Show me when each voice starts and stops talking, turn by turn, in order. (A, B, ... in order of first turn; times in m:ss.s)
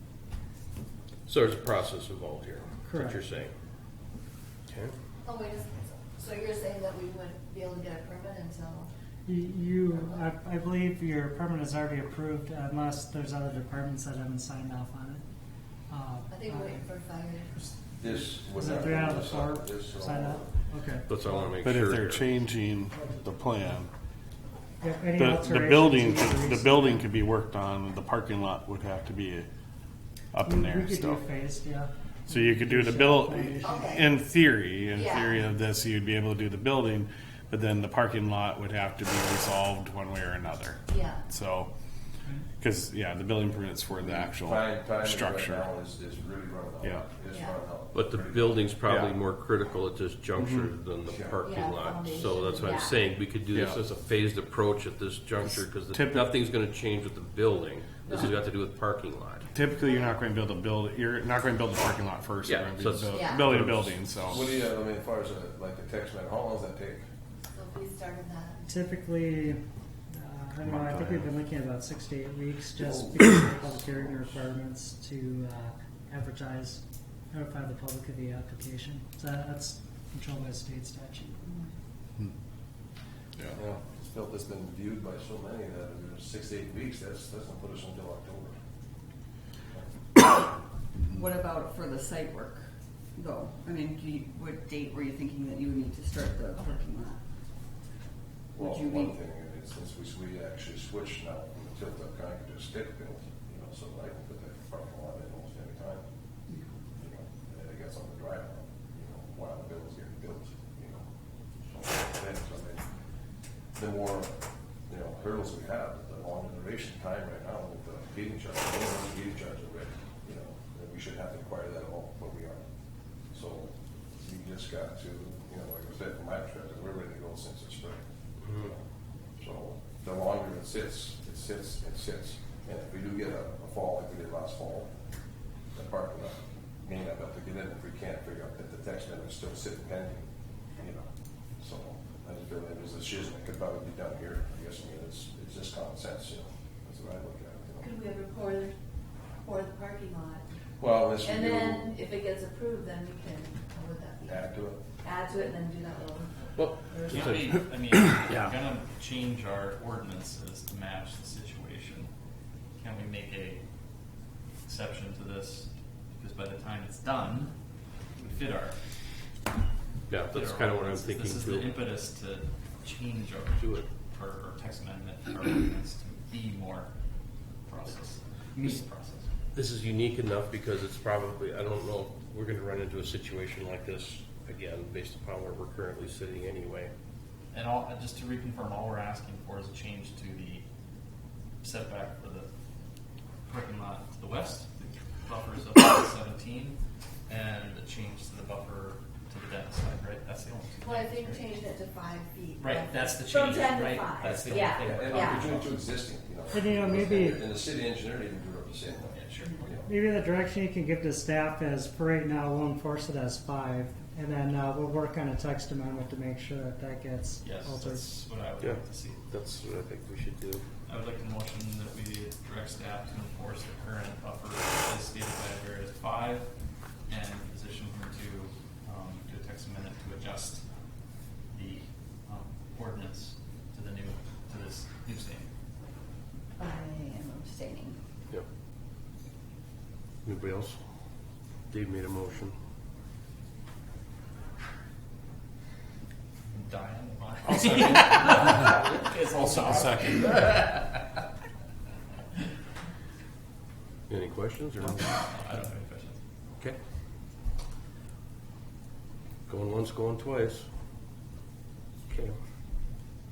0:01.3-0:03.5 A
0:02.8-0:03.2 B
0:04.7-0:04.9 A
0:05.2-0:08.9 C
0:09.2-0:15.2 B
0:15.9-0:16.8 B
0:16.3-0:17.6 C
0:18.0-0:20.5 D
0:18.2-0:21.1 B
0:21.1-0:22.3 A
0:21.6-0:23.9 E
0:24.8-0:27.0 B
0:25.2-0:29.5 E
0:30.3-0:31.2 E
0:30.4-0:33.8 B
0:32.3-0:41.7 E
0:33.6-0:34.1 C
0:34.9-0:35.4 C
0:40.9-0:41.2 C
0:42.6-0:45.6 E
0:44.3-0:48.7 D
0:46.8-0:47.1 E
0:47.3-0:47.6 C
0:47.9-0:59.5 A
0:48.9-0:49.1 E
0:50.4-0:50.7 E
0:51.0-0:51.4 D
0:51.4-0:53.0 C
0:53.5-0:53.8 E
0:55.9-0:56.3 E
0:59.5-1:04.5 E
1:02.4-1:04.0 A
1:03.1-1:03.4 C
1:04.3-1:07.0 D
1:07.4-1:08.7 C
1:08.7-1:16.8 B
1:10.6-1:11.3 E
1:12.8-1:14.4 D
1:17.3-1:21.4 B
1:21.4-1:21.7 F
1:23.6-1:28.6 D
1:31.1-1:32.6 F
1:33.2-1:37.2 F
1:38.5-1:46.0 D
1:38.6-1:39.2 F
1:46.9-1:51.1 D
1:51.7-1:52.8 D
1:53.8-1:54.3 D
1:54.9-2:02.6 D
2:03.3-2:08.8 D
2:09.4-2:14.9 D
2:15.7-2:20.3 D
2:20.8-2:21.1 D
2:21.6-2:27.9 D
2:27.8-2:28.7 C
2:29.4-2:30.4 C
2:30.8-2:32.0 D
2:31.2-2:34.4 C
2:34.2-2:34.8 D
2:35.0-2:37.2 C
2:36.6-2:37.6 A
2:37.0-2:42.1 G
2:38.3-2:38.5 A
2:42.8-2:43.6 G
2:44.6-2:47.5 G
2:48.2-2:48.8 G
2:50.1-2:51.8 A
2:50.3-2:56.9 G
2:53.6-2:53.9 A
2:57.7-2:59.3 G
2:59.5-3:06.9 A
3:07.5-3:10.6 G
3:11.6-3:12.5 G
3:13.5-3:21.5 G
3:20.8-3:25.4 C
3:22.6-3:25.8 G
3:24.8-3:29.9 D
3:26.5-3:27.4 B
3:29.1-3:29.6 G
3:29.8-3:38.0 B
3:37.4-3:39.2 G
3:38.6-3:40.6 A
3:40.8-3:46.5 G
3:47.1-3:50.6 G
3:51.5-3:55.5 G
3:56.6-3:58.0 F
4:00.2-4:00.8 A
4:01.7-4:02.5 A
4:06.4-4:10.8 G
4:07.8-4:10.4 E
4:14.1-4:15.1 A
4:14.8-4:16.2 G
4:19.5-4:20.6 A
4:22.1-4:22.4 A